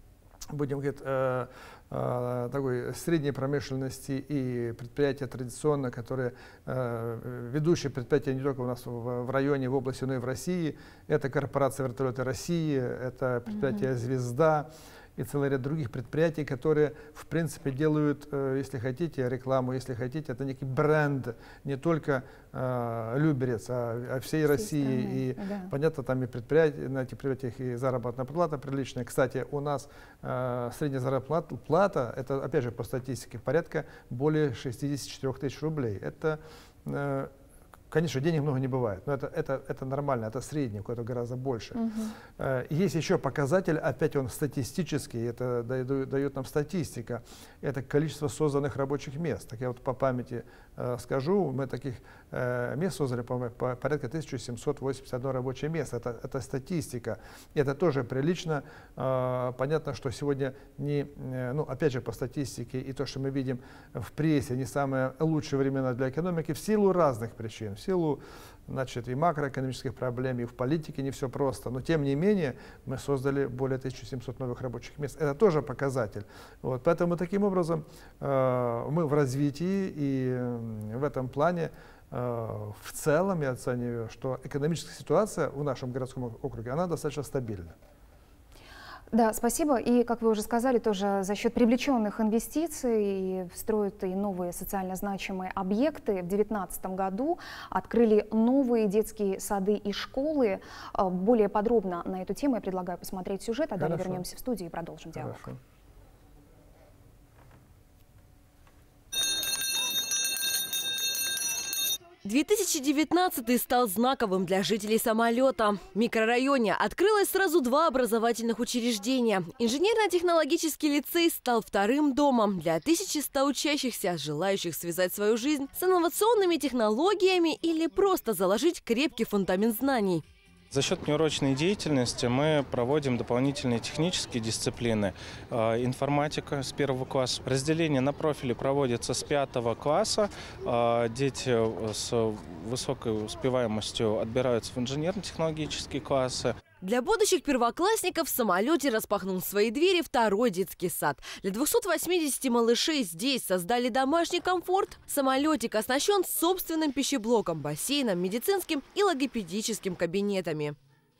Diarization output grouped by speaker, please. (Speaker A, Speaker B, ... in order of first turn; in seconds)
Speaker A: 0.5-37.3, 37.9-87.8, 103.8-104.2, 105.1-105.6
Speaker B: 13.5-13.8, 24.5-25.7, 41.8-42.1, 89.1-105.4
Speaker C: 112.2-130.2, 146.8-160.8
Speaker D: 130.7-146.6